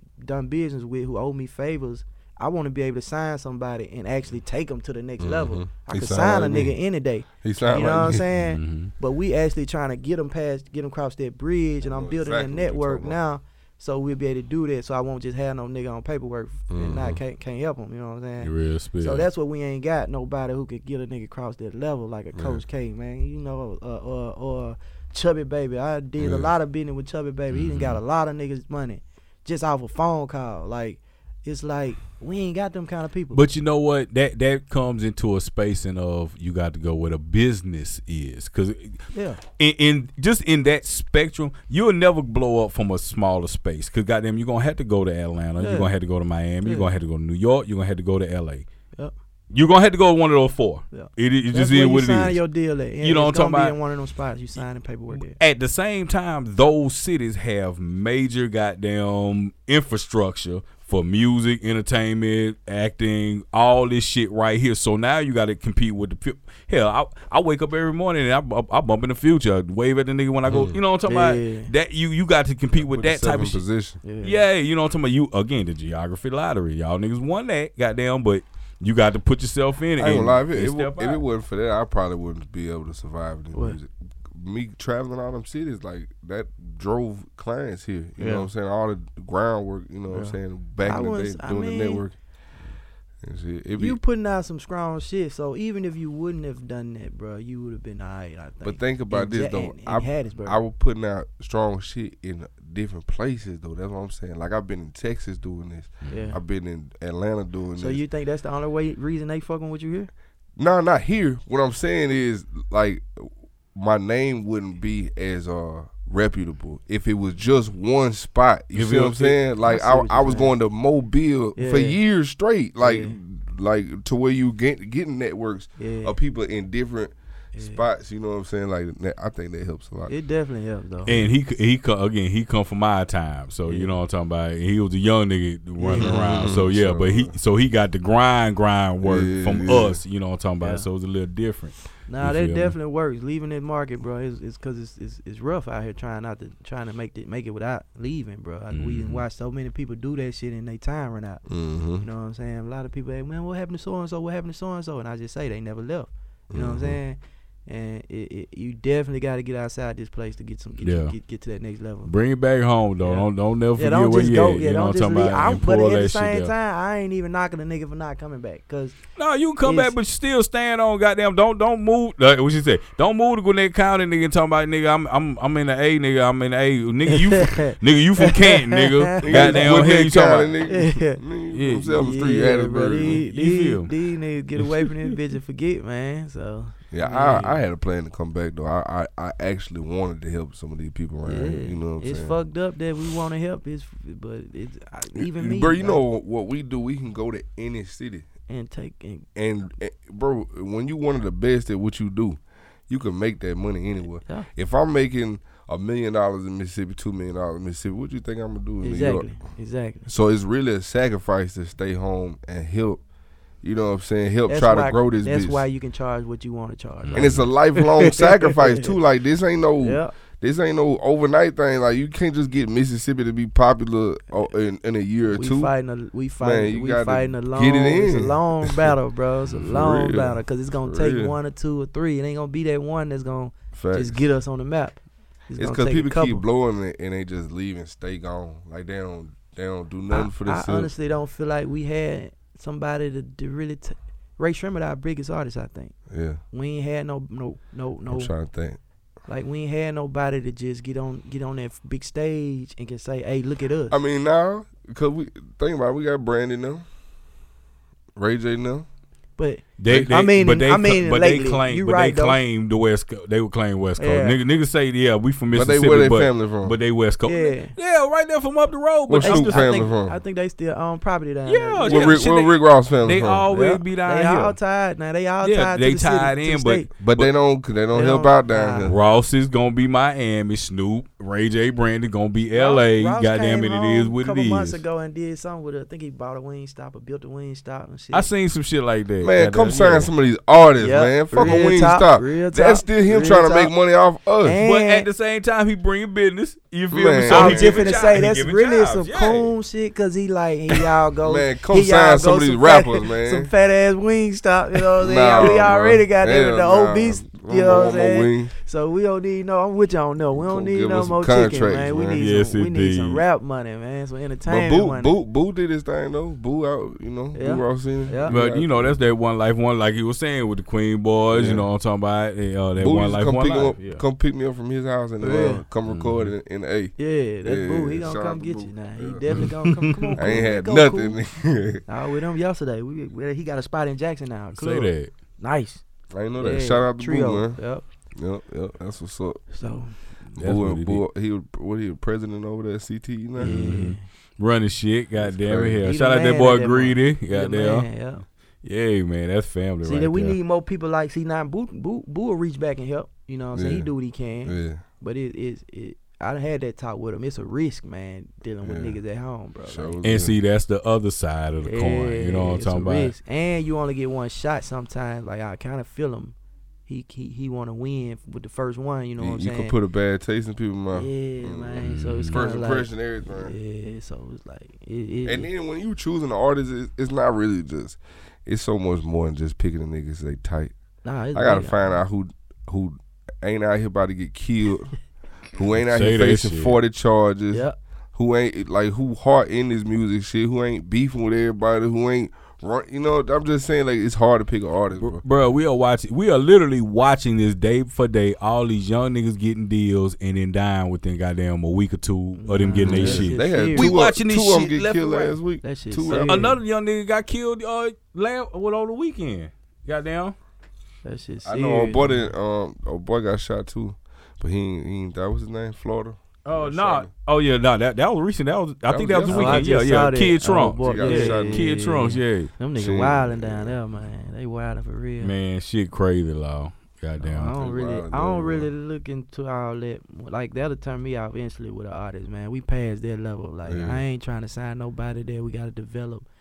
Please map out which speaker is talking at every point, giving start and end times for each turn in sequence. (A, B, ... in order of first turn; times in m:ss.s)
0:00.2-0:33.4 A
0:05.2-0:06.7 B
0:07.4-0:08.2 B
0:08.3-0:08.9 C
0:11.8-0:13.2 B
0:16.7-0:17.2 B
0:18.4-0:19.2 C
0:22.3-0:22.6 B
0:26.2-0:26.5 B
0:27.5-0:28.0 C
0:33.3-0:48.7 C
0:39.1-0:39.4 A
0:45.6-0:45.9 A
0:49.5-0:52.4 C
0:50.9-0:55.4 A
0:53.0-0:53.8 C
0:55.1-1:13.6 C
1:10.5-1:10.8 B
1:11.1-1:11.7 A
1:12.7-1:14.0 B
1:14.0-1:14.4 A
1:14.2-1:21.2 C
1:20.0-1:32.2 B
1:28.2-1:28.5 A
1:30.1-1:32.0 A
1:33.2-1:34.0 B
1:33.8-1:40.6 A
1:38.6-1:48.0 B
1:46.0-1:46.3 C
1:46.1-1:46.4 A
1:47.8-1:50.1 A
1:50.6-2:10.1 B
1:58.7-1:59.4 C
1:59.6-2:00.5 A
2:01.6-2:02.0 A
2:02.8-2:03.2 A
2:05.8-2:06.1 A
2:07.5-2:07.8 A
2:10.1-2:11.1 A
2:11.0-2:22.8 C
2:11.1-2:11.3 B
2:13.6-2:13.9 A
2:15.8-2:16.2 A
2:16.0-2:17.3 B
2:19.0-2:20.0 B
2:20.6-2:20.8 A
2:22.1-2:31.4 A
2:28.7-2:29.2 C
2:31.5-2:32.0 B
2:32.0-2:42.1 A
2:36.5-2:37.0 B
2:40.8-2:41.1 C
2:42.0-2:46.5 C
2:43.0-2:49.0 A
2:49.2-3:00.5 C
2:49.6-2:49.9 A
2:57.1-2:59.9 A
2:59.2-3:03.2 B
3:00.7-3:01.2 A
3:01.5-3:02.0 C
3:01.9-3:07.5 A
3:03.3-3:03.9 C
3:04.6-3:04.9 C
3:06.9-3:12.4 B
3:11.2-3:16.0 A
3:15.1-3:18.3 B
3:18.5-3:19.3 A
3:19.3-3:29.4 B
3:28.8-3:30.1 A
3:30.0-3:33.0 B
3:33.6-3:35.6 B
3:34.5-3:38.9 A
3:37.0-3:37.4 C
3:37.1-3:45.7 B
3:39.8-3:40.1 A
3:45.3-3:56.4 A
3:46.4-3:48.9 B
3:49.5-3:51.3 B
3:53.7-3:54.2 B
3:55.5-4:00.9 B
4:00.1-4:06.0 A
4:06.1-4:06.4 B
4:06.5-4:08.3 A
4:08.1-4:08.8 B
4:09.2-4:14.0 A
4:13.9-4:16.8 B
4:18.1-4:18.8 B
4:19.4-4:22.4 A
4:19.8-4:29.6 C
4:24.0-4:24.4 A
4:25.5-4:26.8 B
4:27.2-4:27.7 A
4:29.1-4:30.2 B
4:29.2-4:32.2 A
4:31.5-4:34.6 C
4:31.8-4:33.5 B
4:33.5-4:36.9 A
4:35.4-4:37.3 C
4:37.0-4:39.0 B
4:37.9-4:38.9 A
4:38.8-4:44.8 C
4:42.5-4:48.3 A
4:48.1-4:50.1 C
4:49.2-4:54.6 B
4:50.8-4:53.7 A
4:54.4-4:55.1 A
4:54.6-4:59.5 C
4:56.9-4:58.1 B
4:57.2-5:15.1 A
5:01.2-5:03.5 B
5:05.0-5:08.5 B
5:10.3-5:12.2 B
5:12.2-5:13.2 C
5:14.5-5:19.0 B
5:17.3-5:18.3 A
5:18.3-5:24.0 C
5:21.3-5:21.7 B
5:22.8-5:29.5 B
5:25.2-5:25.6 A
5:25.8-5:26.3 C
5:27.0-5:31.2 A
5:29.3-5:30.2 C
5:30.2-5:31.8 B
5:31.8-5:35.8 A
5:34.6-5:35.1 C
5:36.1-5:37.6 B
5:36.4-5:37.8 A
5:38.1-5:39.5 B
5:39.5-5:40.0 A
5:40.3-5:41.0 C
5:40.3-5:43.8 B
5:43.4-5:44.0 A
5:43.4-5:47.9 C
5:45.2-5:45.8 B
5:45.8-5:48.2 A
5:48.6-5:50.4 C
5:49.8-6:00.0 A
5:53.5-5:53.9 B
5:54.4-5:54.8 B
5:58.6-5:59.0 B
5:59.6-6:00.4 B
6:00.0-6:03.1 C
6:01.6-6:06.4 A
6:06.9-6:09.8 A
6:09.2-6:13.6 B
6:10.9-6:15.5 A
6:11.8-6:12.4 C
6:15.2-6:20.8 B
6:21.0-6:22.0 A
6:21.3-6:25.0 B
6:25.5-6:35.2 B
6:25.9-6:26.7 C
6:27.5-6:27.8 A
6:35.0-6:45.3 C
6:42.4-6:43.9 A
6:42.8-6:46.5 B
6:45.6-6:46.6 A
6:46.1-6:50.4 C
6:51.0-6:52.3 A
6:51.4-6:57.1 B
6:56.4-7:02.5 C
6:58.9-7:00.0 B
6:59.3-7:05.3 A
7:00.8-7:01.8 B
7:02.8-7:03.8 B
7:05.2-7:07.5 C
7:07.2-7:16.2 A
7:07.5-7:08.7 B
7:13.6-7:14.0 B